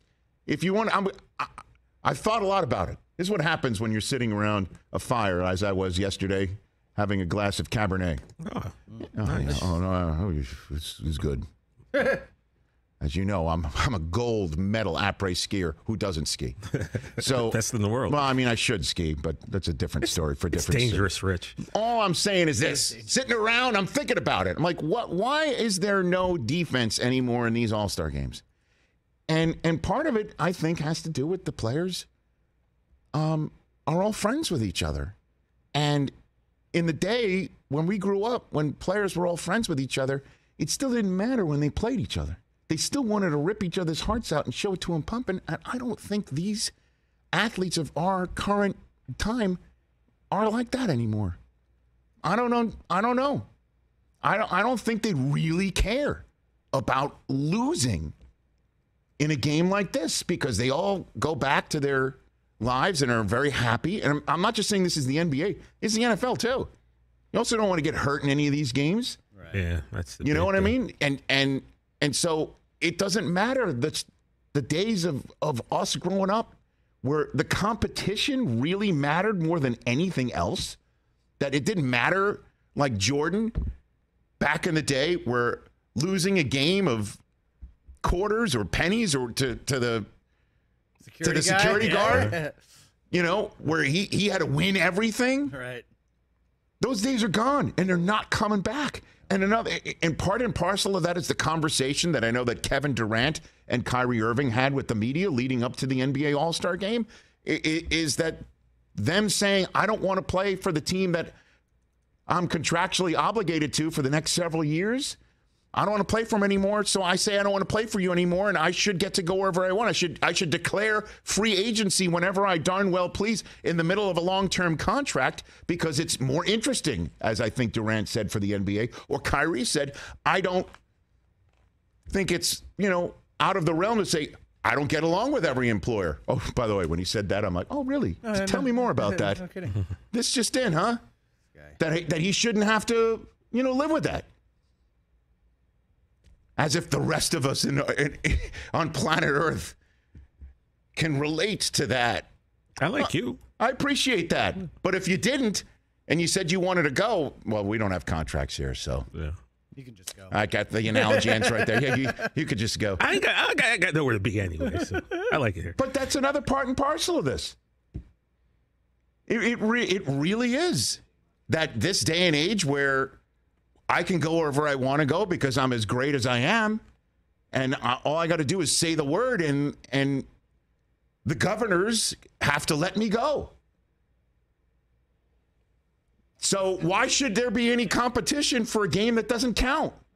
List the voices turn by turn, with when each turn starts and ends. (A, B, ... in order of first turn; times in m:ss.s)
0:00.5-0:08.2 A
0:08.4-0:09.7 B
0:09.0-0:11.4 A
0:13.0-0:28.4 A
0:16.8-0:18.2 B
0:20.5-0:21.6 B
0:29.3-0:32.1 A
0:33.1-0:35.2 A
0:35.7-0:36.1 A
0:36.7-0:46.7 A
0:47.3-0:49.6 A
0:50.3-0:51.4 A
0:52.2-0:53.4 A
0:54.2-0:58.1 A
0:59.2-1:06.7 A
1:07.3-1:09.2 A
1:09.5-1:10.7 B
1:10.2-1:20.8 A
1:21.4-1:23.7 A
1:24.4-1:27.2 A
1:28.0-1:30.1 A
1:31.0-1:32.5 C
1:31.2-1:32.4 A
1:33.1-1:35.5 A
1:35.5-1:35.8 C
1:36.8-1:48.4 A
1:48.9-1:51.3 A
1:52.3-1:55.2 A
1:55.7-2:10.7 A
2:12.1-2:19.5 A
2:18.2-2:19.8 C
2:20.1-2:21.0 A
2:21.8-2:24.3 A
2:26.6-2:29.8 A
2:31.0-2:32.3 A
2:32.8-2:33.4 B
2:33.0-2:39.1 A
2:39.8-2:40.3 C
2:40.3-2:43.0 A
2:40.9-2:42.2 C
2:43.0-2:45.8 B
2:45.8-2:47.6 A
2:49.3-2:53.2 A
2:53.9-2:56.8 A
2:57.5-3:00.2 A
3:01.2-3:03.5 A
3:06.4-3:10.0 A